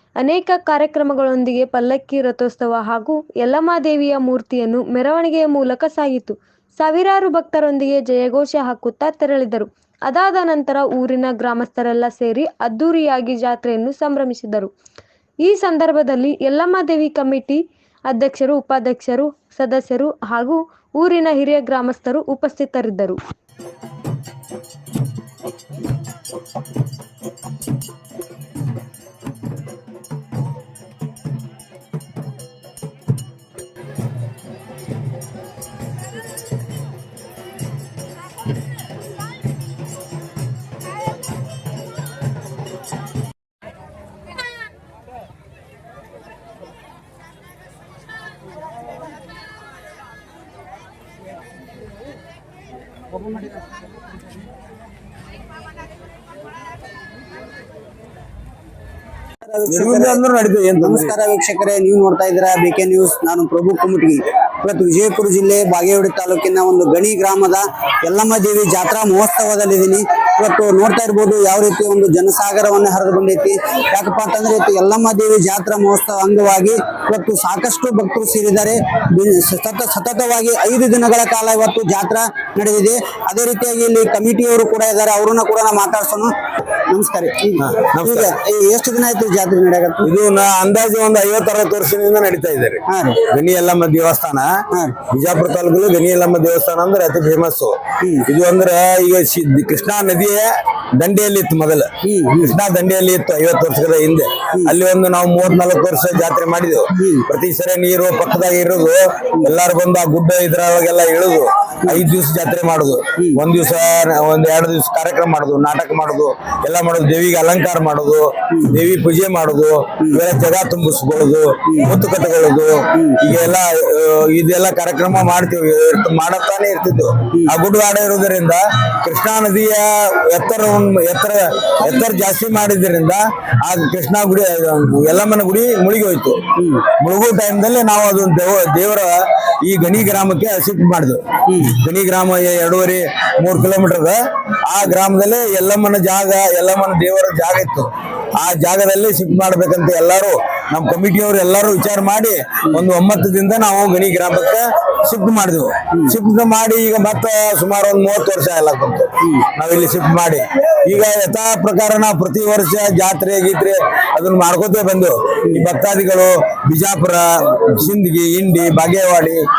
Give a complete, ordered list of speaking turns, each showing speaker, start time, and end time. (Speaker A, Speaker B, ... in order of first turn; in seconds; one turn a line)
Speaker A: 0.2-14.7
Speaker A: 15.4-23.2
Speaker B: 59.4-60.2
Speaker C: 59.7-61.1
Speaker B: 60.8-86.3
Speaker B: 86.9-90.1
Speaker C: 87.6-88.3
Speaker C: 90.0-94.5
Speaker B: 92.9-93.2
Speaker B: 94.7-95.0
Speaker C: 95.1-169.4
Speaker B: 98.0-98.3
Speaker B: 102.0-102.5
Speaker B: 107.0-107.3
Speaker B: 118.5-118.8
Speaker B: 136.6-136.8
Speaker B: 141.5-141.7